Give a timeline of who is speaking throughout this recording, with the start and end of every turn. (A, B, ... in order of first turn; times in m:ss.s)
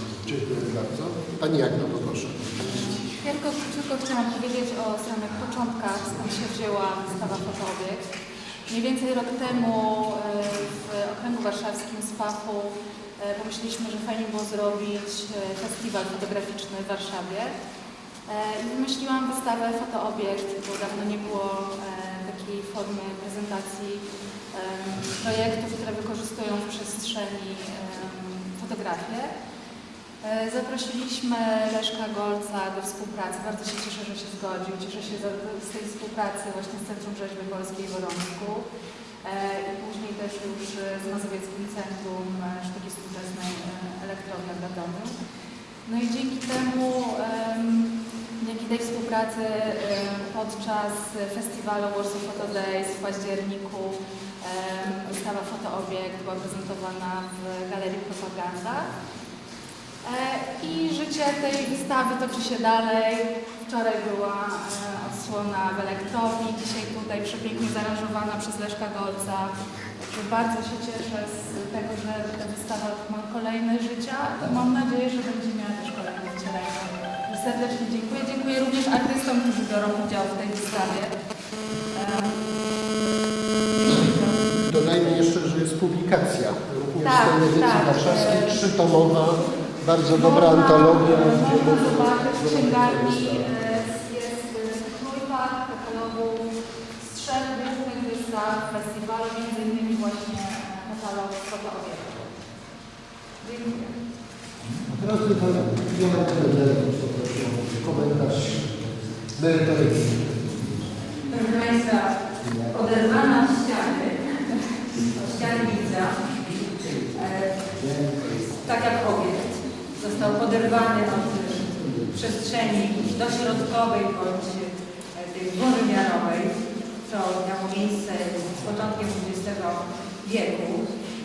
0:00.2-0:02.6 A
0:02.6-0:08.1 B
0:08.7-0:17.6 B
0:18.3-0:29.3 B
0:30.2-0:38.7 B
0:39.2-0:45.2 B
0:45.8-0:58.9 B
1:00.0-1:09.5 B
1:10.1-1:21.2 B
1:21.9-1:22.6 B
1:23.7-1:24.4 B
1:24.5-1:33.5 A
1:27.0-1:29.2 B
1:30.1-1:42.3 B
1:43.4-1:44.0 B
1:44.8-1:48.7 A
1:49.3-1:50.5 A
1:51.3-1:56.2 C
1:56.9-2:11.0 C